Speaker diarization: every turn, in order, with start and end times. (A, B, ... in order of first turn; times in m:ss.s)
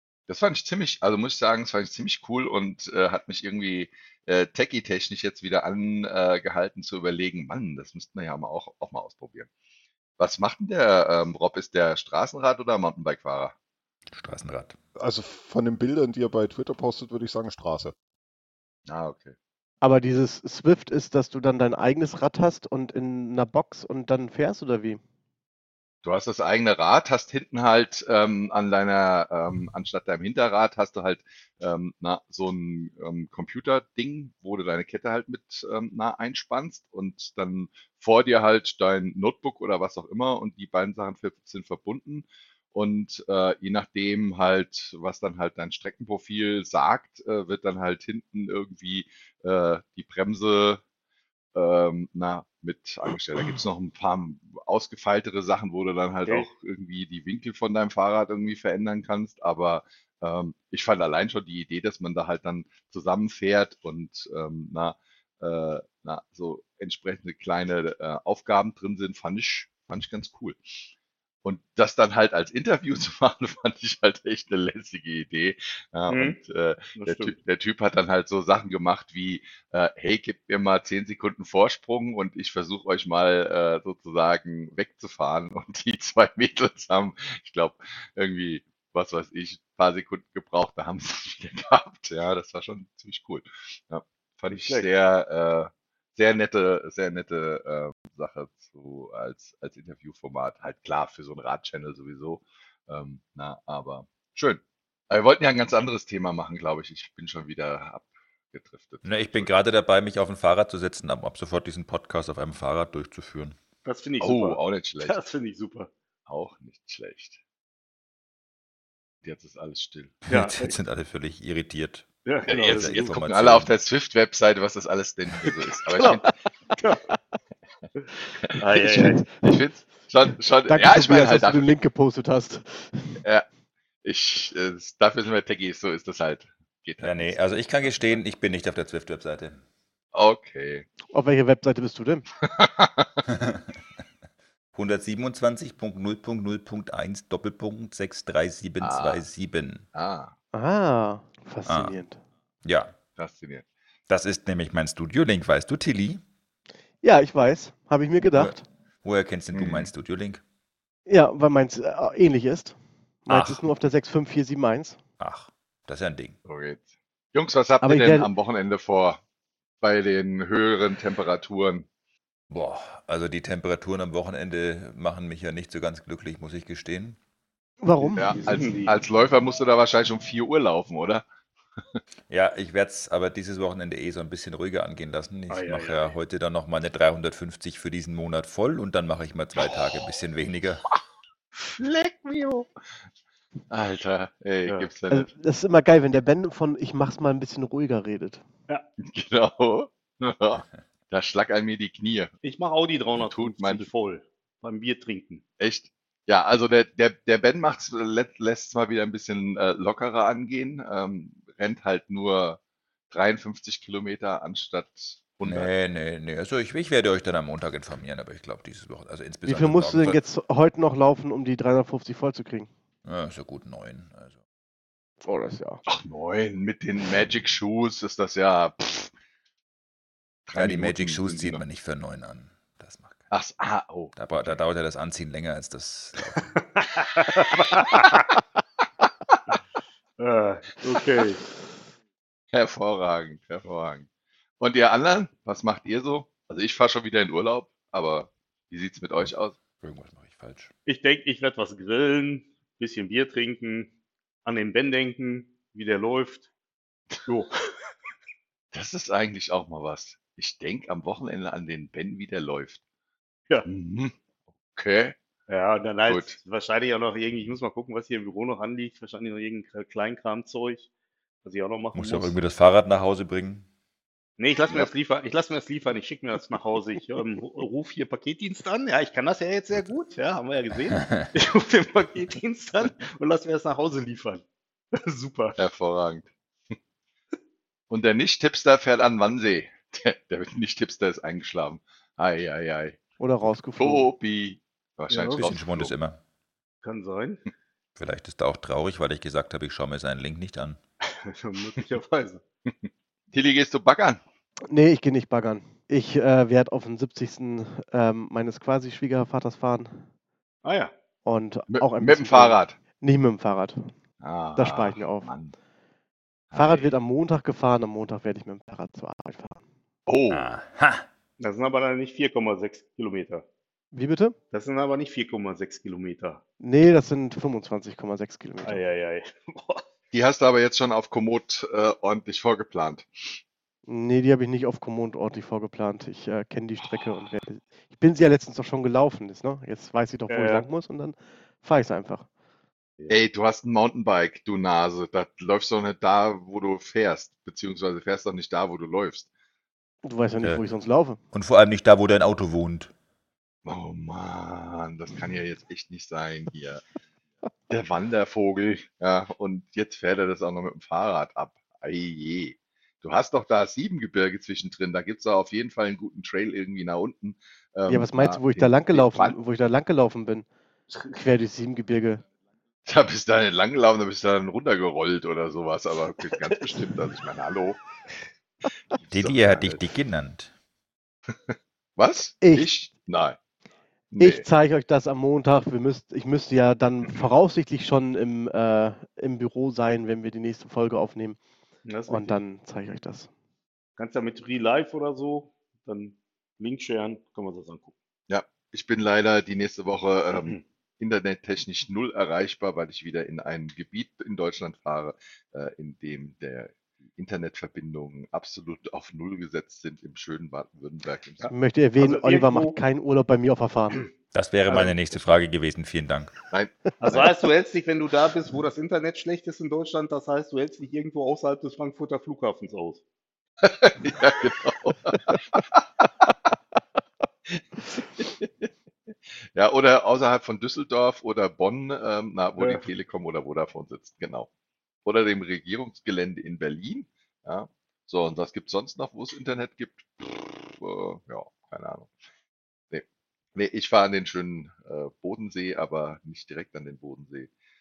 0:00.3-0:09.5 A
0:10.2-0:13.5 A
0:14.1-0:14.8 B
0:15.0-0:17.9 C
0:18.9-0:19.4 A
0:19.8-0:25.0 D
0:26.0-0:50.8 A
0:51.6-1:10.6 A
1:11.4-1:49.6 A
1:16.1-1:16.4 E
1:17.0-1:17.3 E
1:34.5-1:34.9 E
1:49.0-1:53.6 B
1:53.8-1:55.9 E
1:54.2-1:55.2 A
1:56.3-1:57.4 A
1:59.2-2:00.2 A
2:00.3-2:02.1 B
2:00.3-2:00.8 E
2:02.3-2:02.9 E
2:02.5-2:06.3 A
2:02.6-2:03.7 B
2:05.9-2:06.2 E
2:08.4-2:11.7 A
2:08.6-2:09.3 E
2:10.7-2:13.2 D
2:14.0-2:18.2 A
2:17.0-2:19.6 B
2:20.1-2:20.9 A
2:21.1-2:22.3 D
2:22.5-2:23.1 A
2:23.3-2:23.8 B
2:24.7-2:29.9 B
2:28.8-2:29.3 A
2:29.9-2:30.3 A
2:30.5-2:32.2 D
2:31.7-2:32.0 B
2:32.6-2:33.0 B
2:33.2-2:33.6 A
2:34.1-2:36.2 B
2:37.0-2:38.6 D
2:38.2-2:40.4 B
2:39.5-2:39.9 A
2:41.1-2:45.0 D
2:43.3-2:43.6 B
2:45.2-2:46.4 B
2:46.4-2:49.2 A
2:47.8-2:48.3 D
2:49.8-2:51.9 A
2:52.5-2:57.2 B
2:57.8-2:58.3 D
2:58.0-2:59.0 E
2:58.2-3:01.2 A
3:02.3-3:10.8 B
3:05.5-3:06.1 E
3:09.6-3:10.1 A
3:11.6-3:12.7 A
3:13.7-3:15.3 A
3:15.1-3:18.4 D
3:19.0-3:22.3 A
3:22.4-3:25.4 E
3:23.2-3:23.9 A
3:25.6-3:32.6 A
3:33.1-3:35.7 A
3:35.4-3:40.2 B
3:39.5-3:42.7 D
3:43.0-3:44.3 B
3:45.2-3:45.8 D
3:45.9-3:49.1 A
3:50.5-3:51.6 A
3:50.5-3:53.3 B
3:53.3-3:54.5 A
3:54.2-3:56.5 B
3:56.6-3:58.2 E
4:00.2-4:01.4 E
4:02.5-4:04.1 A
4:04.6-4:09.6 A
4:09.2-4:10.7 B
4:10.9-4:13.9 E
4:14.4-4:16.5 E
4:17.3-4:17.5 E
4:18.7-4:22.8 A
4:23.6-4:24.2 A
4:24.7-4:25.2 A
4:25.5-4:30.9 E
4:26.0-4:26.4 A
4:31.4-4:32.4 E
4:31.9-4:33.7 B
4:34.4-4:44.4 E
4:41.0-4:41.3 B
4:45.0-4:45.6 E
4:45.6-4:46.3 A
4:47.9-4:53.0 A
4:53.2-4:54.1 D
4:53.8-4:55.9 A
4:55.1-4:55.5 E
4:55.3-4:56.2 B
4:56.8-4:57.4 E
4:58.0-5:00.8 B
5:01.1-5:02.4 E
5:02.7-5:04.2 A
5:04.7-5:10.0 D
5:10.6-5:10.9 E
5:11.2-5:13.9 D
5:11.7-5:12.8 A
5:14.2-5:15.5 A
5:14.6-5:15.4 D
5:16.5-5:16.8 A
5:16.5-5:19.6 D
5:20.1-5:20.5 A
5:20.3-5:21.0 B
5:21.4-5:23.4 E
5:23.9-5:24.4 D
5:24.5-5:26.4 E
5:26.6-5:28.8 D
5:28.6-5:29.8 E
5:30.1-5:33.1 A
5:33.9-5:42.3 D
5:40.3-5:40.7 E
5:43.1-5:49.3 A
5:50.0-5:51.2 D
5:51.3-5:52.9 B
5:53.6-5:56.8 A
5:57.7-6:09.4 A
6:07.9-6:12.2 D
6:12.9-6:17.8 A
6:18.9-6:19.8 A
6:19.1-6:20.5 B
6:21.5-6:23.4 A
6:22.4-6:22.7 D
6:24.1-6:24.4 A
6:24.2-6:31.4 D
6:31.9-6:32.4 E
6:32.1-6:33.3 D
6:34.0-6:37.9 E
6:38.3-6:51.5 A
6:40.3-6:40.6 E
6:51.4-6:54.1 D
6:52.0-6:52.8 E
6:54.3-6:56.4 B
6:56.5-6:57.3 A
6:57.0-7:03.0 E
7:03.6-7:05.6 A
7:07.5-7:08.7 A
7:09.5-7:14.5 A
7:12.6-7:12.8 E
7:15.0-7:22.1 A
7:23.6-7:27.5 A